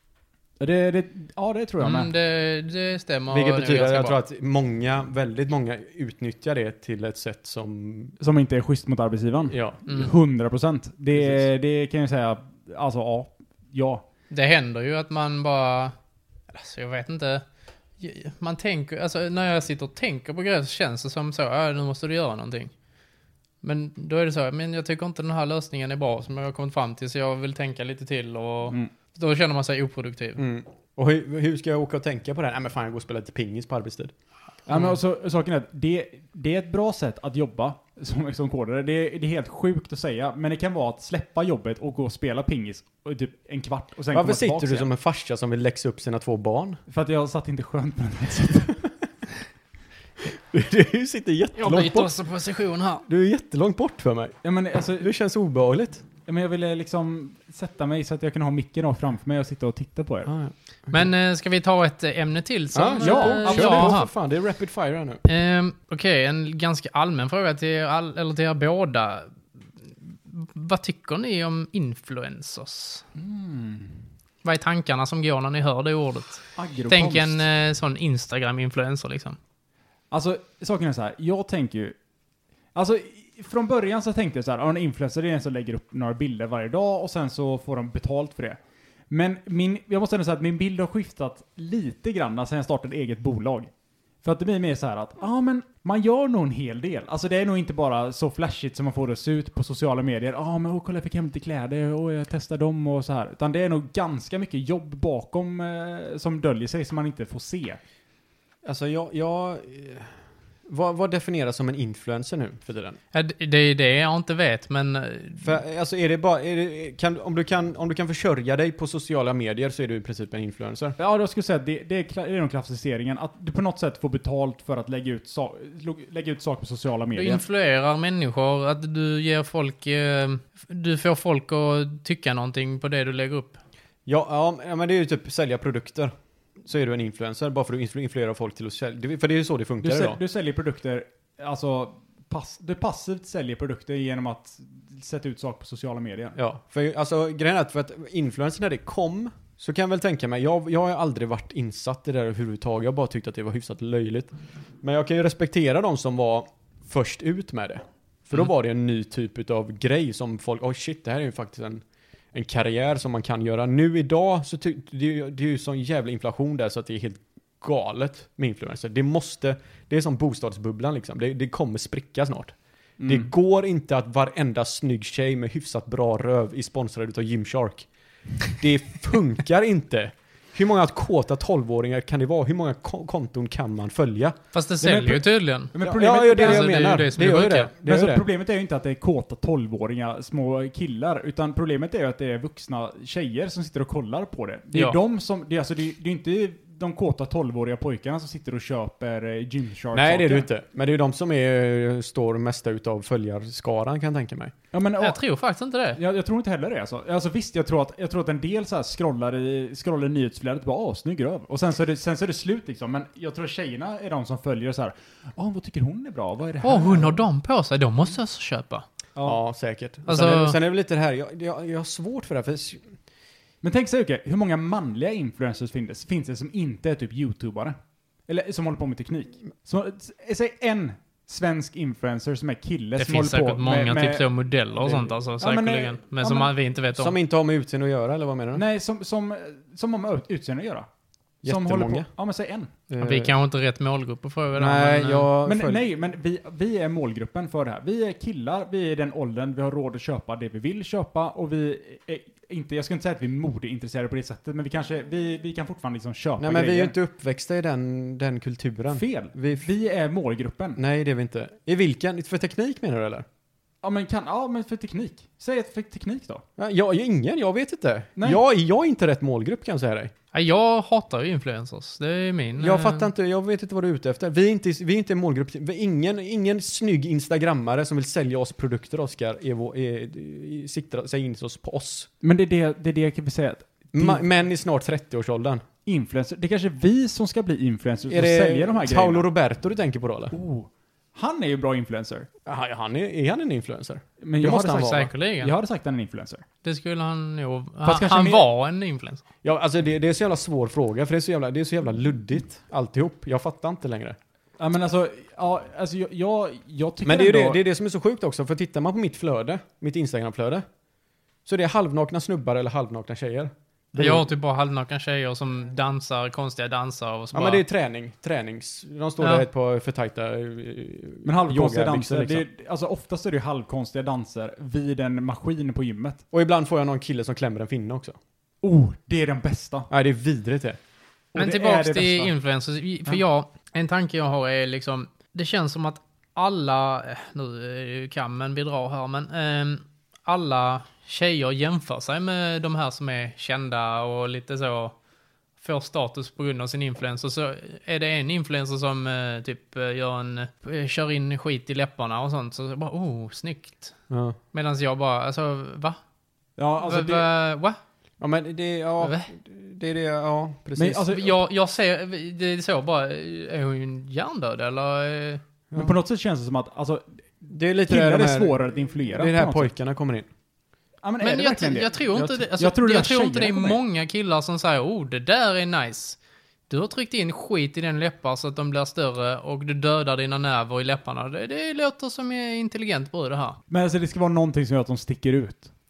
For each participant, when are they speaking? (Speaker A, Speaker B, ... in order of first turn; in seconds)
Speaker A: 0.6-2.1, 8.2-14.1, 34.7-44.9, 46.9-48.9, 54.4-55.1, 56.3-60.3, 63.0-64.0, 73.1-74.0, 76.5-77.4, 80.1-82.0, 82.7-88.6, 89.1-93.7, 94.2-107.8, 121.0-127.4, 139.8-146.4, 173.0-173.3, 184.8-186.9, 187.8-200.5, 204.7-205.2, 205.9-217.2, 223.6-227.7, 228.3-234.3, 234.8-236.5, 238.5-240.9, 241.4-242.7, 245.4-256.9, 258.9-260.8, 263.8-266.4, 282.2-284.2, 285.9-289.3, 290.3-292.3, 294.2-296.4, 297.8-298.4, 304.6-307.6, 321.2-326.2, 328.6-329.9, 331.4-332.3, 356.6-357.3, 360.8-361.4, 365.7-369.7, 371.0-373.8, 383.7-385.7
Speaker B: 1.8-4.2, 9.9-10.1, 14.3-15.9, 16.5-17.4, 18.0-22.7, 23.6-30.4, 51.6-53.0, 60.9-64.1, 65.3-73.0, 74.4-79.4, 113.1-115.5, 127.2-133.6, 184.5-187.7, 205.0-206.0, 216.6-218.8, 220.1-220.6, 233.0-237.1, 243.0-245.3, 270.3-273.1, 294.4-295.6, 296.6-299.2, 313.9-317.6, 319.2-319.4, 331.4-344.9, 345.6-354.0, 354.5-356.0, 356.8-357.8, 359.0-359.3, 361.1-365.4, 371.2-376.2, 376.7-383.6
Speaker C: 3.3-8.1, 9.5-9.8, 11.1-11.4, 30.4-34.1, 44.1-46.8, 50.3-52.1, 53.1-54.4, 55.0-56.0, 60.3-61.1, 62.7-65.2, 108.6-113.0, 115.4-121.0, 134.1-140.2, 146.4-172.6, 173.1-177.9, 178.5-184.4, 185.8-188.2, 199.9-204.5, 219.2-222.8, 236.9-238.6, 241.4-242.1, 242.9-243.3, 244.6-245.8, 256.4-259.7, 260.8-263.3, 266.6-270.1, 272.6-282.1, 283.9-285.6, 288.1-290.3, 292.4-295.0, 299.4-304.2, 307.1-310.7, 311.4-314.3, 317.3-322.4, 326.3-328.2, 329.9-330.8, 354.1-354.4, 358.2-361.1, 367.5-370.3